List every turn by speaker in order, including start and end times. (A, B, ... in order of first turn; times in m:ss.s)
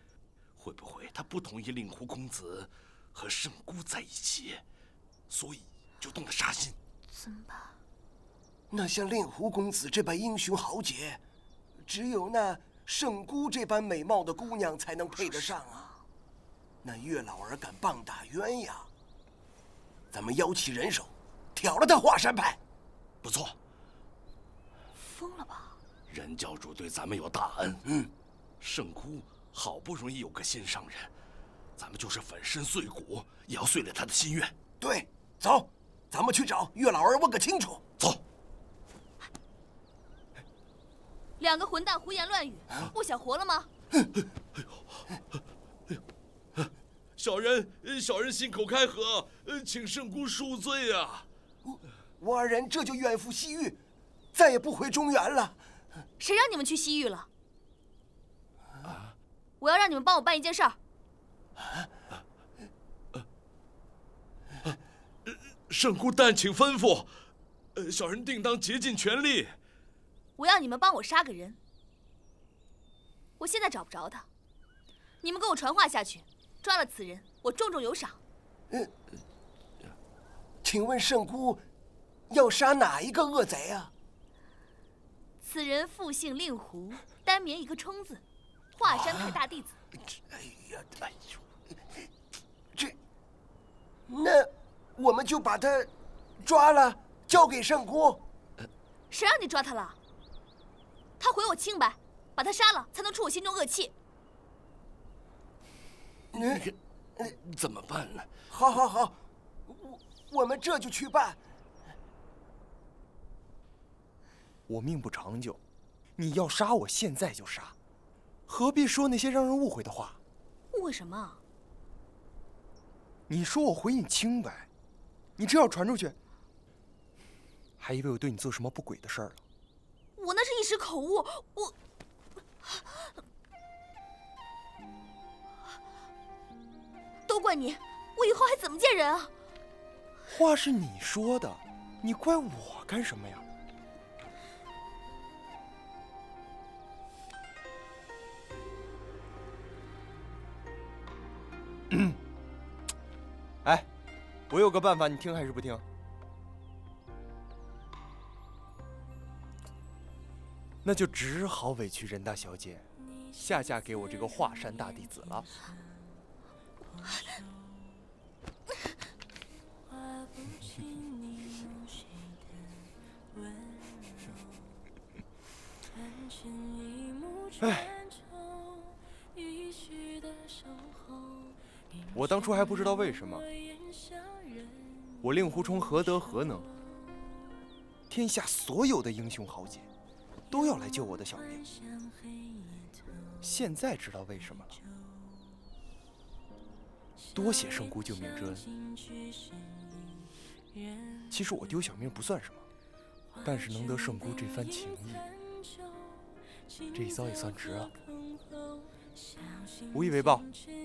0:00.6-0:04.6 A
0:05.3-0:06.8 A
0:07.1-0:07.8 B
0:08.7-0:11.2 C
0:11.8-0:15.9 C
0:16.8-0:18.9 C
0:20.1-0:22.6 C
0:23.2-0:23.6 A
0:25.0-0:25.8 B
0:26.1-0:27.8 A
0:27.9-0:28.1 C
0:28.6-0:31.1 A
0:31.8-0:34.5 A
0:34.8-0:37.8 C
0:41.4-0:43.7 B
0:47.2-0:51.3 A
0:51.6-0:53.8 C
0:54.3-0:55.6 C
0:56.2-0:57.3 B
0:58.9-0:59.1 A
0:59.6-1:00.8 B
1:05.3-1:07.2 A
1:07.8-1:09.6 A
1:10.4-1:11.6 B
1:13.4-1:14.3 B
1:15.2-1:18.2 B
1:20.6-1:21.6 C
1:22.3-1:23.9 C
1:25.4-1:28.2 B
1:28.8-1:29.8 B
1:30.3-1:31.1 C
1:34.1-1:38.2 C
1:39.1-1:40.0 B
1:41.2-1:43.9 B
1:46.3-1:46.6 C
1:46.5-1:46.7 A
1:47.3-1:48.3 A
1:48.5-1:51.4 C
1:54.7-1:55.6 D
1:56.2-1:57.8 D
1:58.5-2:00.2 D
2:00.7-2:01.4 B
2:03.3-2:04.7 D
2:05.4-2:06.2 D
2:07.8-2:09.4 D
2:10.2-2:11.7 B
2:17.3-2:19.3 B
2:20.3-2:23.4 D
2:31.9-2:32.2 D
2:34.5-2:35.8 D
2:40.8-2:45.6 D
2:57.6-2:58.0 D
3:02.1-3:03.4 D
3:05.2-3:06.7 D
3:08.1-3:09.9 D
3:10.5-3:11.6 D
3:13.4-3:14.8 D
3:17.3-3:18.7 D
3:21.3-3:22.6 D
3:23.4-3:25.3 D
3:26.9-3:27.9 D
3:29.9-3:30.5 D